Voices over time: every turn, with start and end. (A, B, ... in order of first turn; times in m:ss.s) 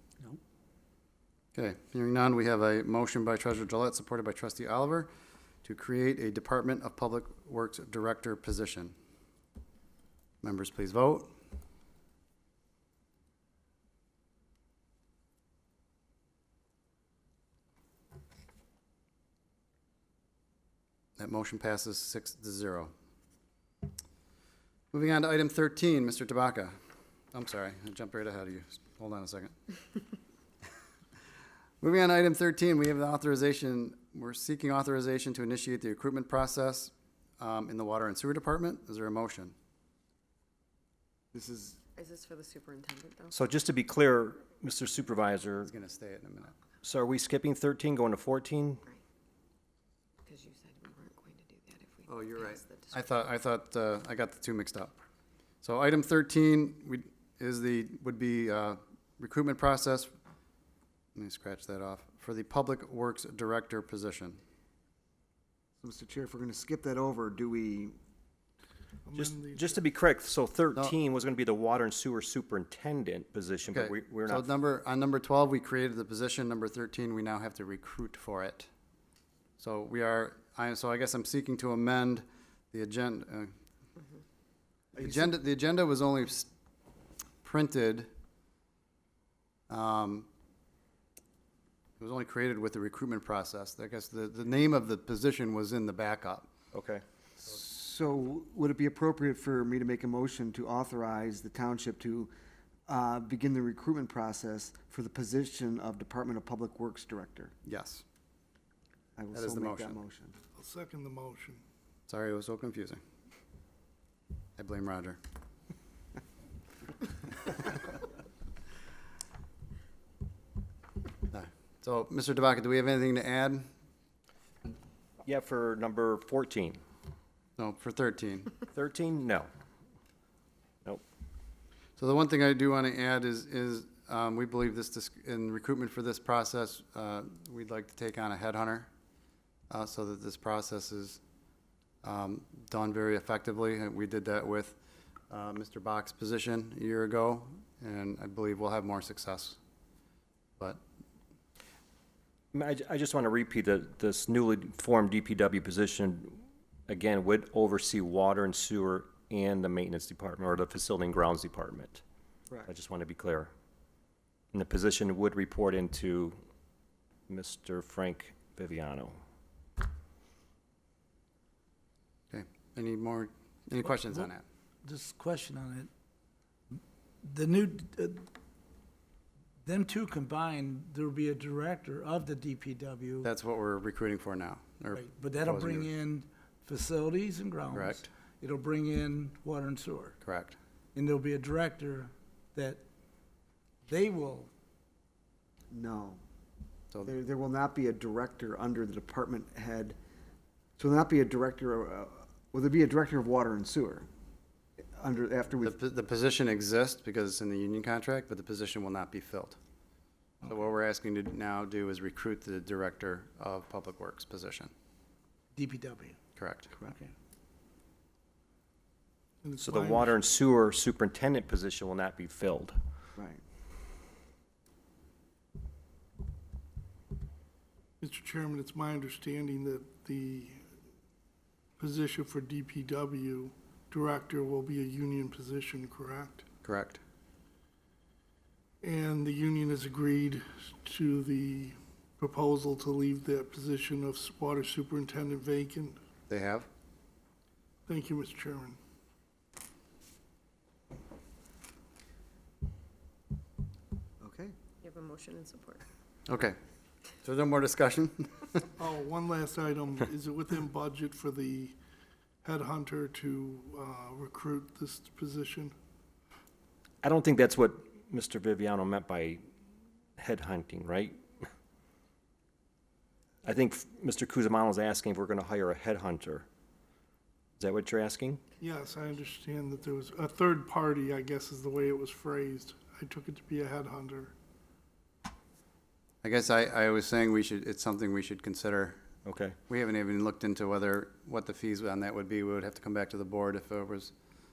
0:01.5-0:05.1 A
0:05.6-0:08.9 A
0:10.4-0:11.3 A
0:21.2-0:22.9 A
0:24.9-0:26.8 A
0:27.3-0:29.6 A
0:31.8-0:39.5 A
0:41.3-0:41.8 B
0:42.0-0:43.4 C
0:43.3-0:45.7 D
0:45.6-0:46.5 A
0:46.8-0:48.8 D
0:50.2-0:53.0 C
0:52.1-0:55.0 A
0:55.6-1:00.1 A
1:01.1-1:04.4 A
1:05.8-1:08.0 B
1:09.0-1:09.8 E
1:09.1-1:14.5 D
1:13.6-1:18.7 A
1:19.6-1:23.5 A
1:24.9-1:26.5 A
1:27.4-1:28.1 A
1:29.7-1:30.3 A
1:32.0-1:36.5 A
1:36.7-1:37.0 D
1:37.4-1:42.3 B
1:42.9-1:47.5 B
1:47.6-1:48.0 A
1:49.2-1:50.3 B
1:49.3-1:50.0 A
1:50.6-1:51.6 E
1:52.1-1:53.0 A
1:54.6-1:55.2 A
2:01.3-2:03.7 A
2:05.2-2:06.8 D
2:07.6-2:08.5 A
2:08.7-2:09.5 D
2:12.0-2:18.9 A
2:19.7-2:21.2 A
2:22.0-2:24.8 A
2:25.3-2:29.6 A
2:32.5-2:42.0 D
2:42.7-2:43.5 D
2:44.5-2:46.4 D
2:47.3-2:49.2 D
2:52.3-2:54.4 A
2:53.8-2:54.3 F
2:54.8-2:55.9 F
2:56.7-2:58.3 F
2:59.6-3:03.3 F
3:03.2-3:05.9 A
3:04.9-3:10.2 F
3:07.7-3:08.1 A
3:10.2-3:10.6 A
3:10.9-3:12.8 F
3:13.9-3:14.5 F
3:15.7-3:16.2 B
3:17.0-3:20.0 B
3:20.8-3:24.1 B
3:24.9-3:25.7 B
3:25.6-3:29.6 A
3:30.4-3:34.7 A
3:35.5-3:36.2 F
3:36.4-3:36.7 A
3:36.8-3:37.1 F
3:39.4-3:40.3 E
3:39.6-3:42.8 D
3:43.2-3:43.4 B
3:48.0-3:50.6 E
3:51.8-3:56.4 E
3:56.6-3:57.0 A
3:58.8-4:06.0 E
4:06.3-4:06.7 A
4:07.9-4:08.8 E
4:14.2-4:14.5 B
4:14.8-4:15.8 C
4:16.3-4:16.6 A
4:17.2-4:18.7 A
4:18.8-4:21.8 E
4:22.4-4:25.7 E
4:27.0-4:29.4 D
4:30.2-4:31.2 D
4:33.4-4:36.4 D
4:37.6-4:38.4 D
4:38.6-4:44.3 E
4:46.2-4:49.0 A
4:49.2-4:49.6 D
4:49.7-4:54.1 A